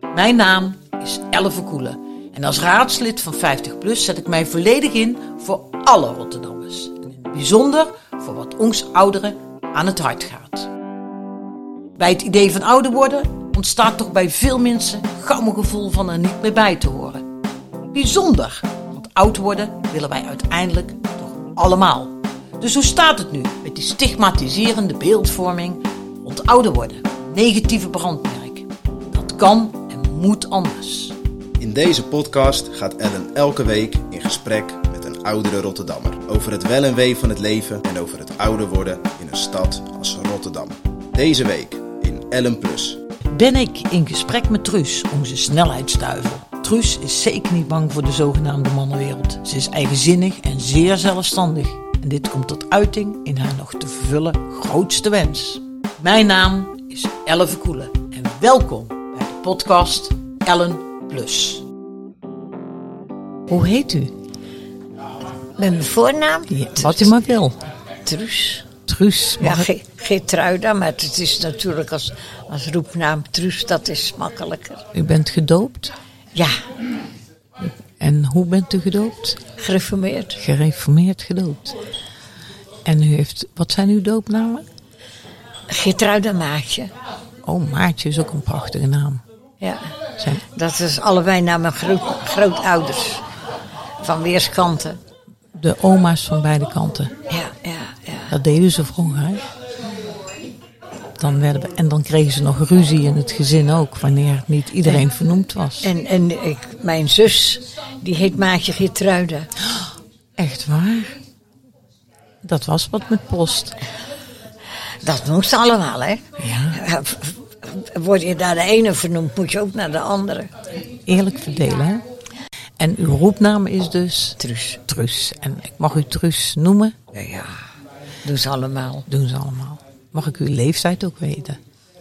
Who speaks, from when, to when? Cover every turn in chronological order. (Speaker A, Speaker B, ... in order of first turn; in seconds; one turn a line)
Speaker A: 0.1-10.7
Speaker A: 12.0-17.3
Speaker A: 17.9-31.2
Speaker B: 31.6-43.0
Speaker A: 43.2-61.6
Speaker A: 63.5-64.2
Speaker C: 65.6-67.1
Speaker A: 66.5-67.6
Speaker C: 68.1-68.7
Speaker A: 68.9-69.7
Speaker C: 69.4-74.9
Speaker A: 74.9-76.0
Speaker C: 76.3-76.6
Speaker A: 77.6-79.4
Speaker C: 79.6-80.4
Speaker A: 80.4-81.8
Speaker A: 82.8-84.7
Speaker C: 85.7-86.9
Speaker A: 87.4-89.2
Speaker C: 89.6-93.2
Speaker C: 94.0-95.0
Speaker A: 95.5-97.1
Speaker C: 97.3-98.4
Speaker A: 98.3-99.5
Speaker A: 101.2-105.9
Speaker C: 105.8-109.5
Speaker A: 110.4-111.2
Speaker A: 112.4-113.8
Speaker C: 115.0-120.5
Speaker A: 116.4-116.8
Speaker A: 121.0-122.0
Speaker A: 122.8-127.0
Speaker C: 124.4-124.8
Speaker C: 127.1-127.6
Speaker C: 128.2-129.1
Speaker A: 129.1-131.6